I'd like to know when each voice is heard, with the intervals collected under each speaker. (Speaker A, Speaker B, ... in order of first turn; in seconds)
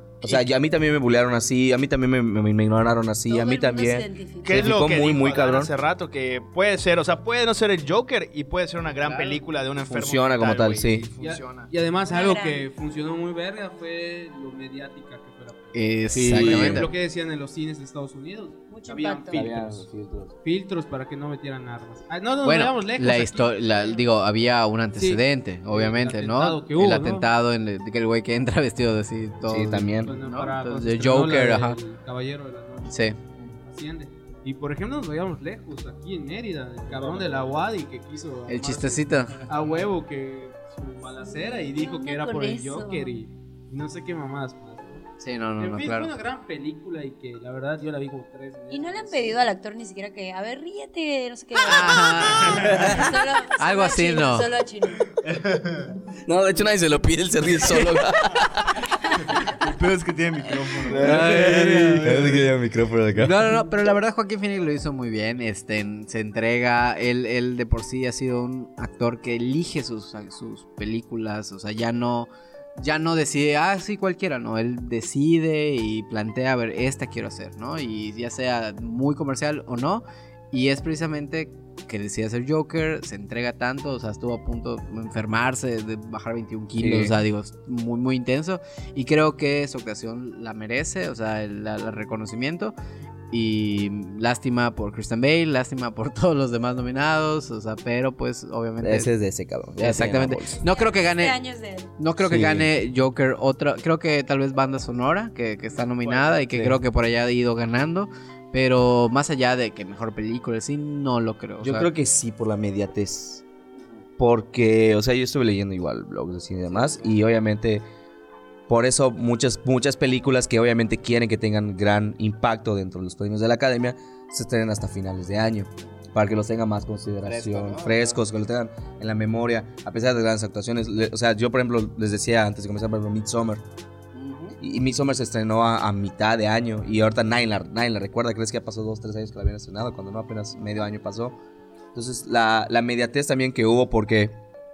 Speaker A: 0.2-5.7, 9.8-11.1, 16.1-16.9, 19.3-20.3, 29.4-30.1, 52.5-53.0, 56.2-58.8, 60.8-63.4, 86.8-87.2, 98.8-100.6, 102.2-102.7, 106.5-106.8, 111.6-113.4, 114.2-117.8, 118.7-133.6, 134.6-141.4, 141.9-144.4
Speaker B: 3.3-4.8, 12.1-12.7, 18.7-19.4, 41.0-43.2, 48.7-55.1, 100.6-101.9
Speaker C: 4.4-11.7, 36.9-37.6, 55.2-55.9, 59.4-62.5, 106.0-106.4
Speaker D: 9.0-9.4, 15.7-16.9, 22.4-31.8, 32.9-33.2, 38.5-39.4, 45.2-46.1, 51.6-54.5, 60.9-62.4, 63.1-92.7, 93.3-99.1, 99.8-101.4, 102.0-111.9, 116.7-117.1, 127.2-128.2, 134.1-134.6
Speaker E: 11.2-19.9, 20.4-23.6, 25.0-27.3, 30.0-45.0, 45.6-49.4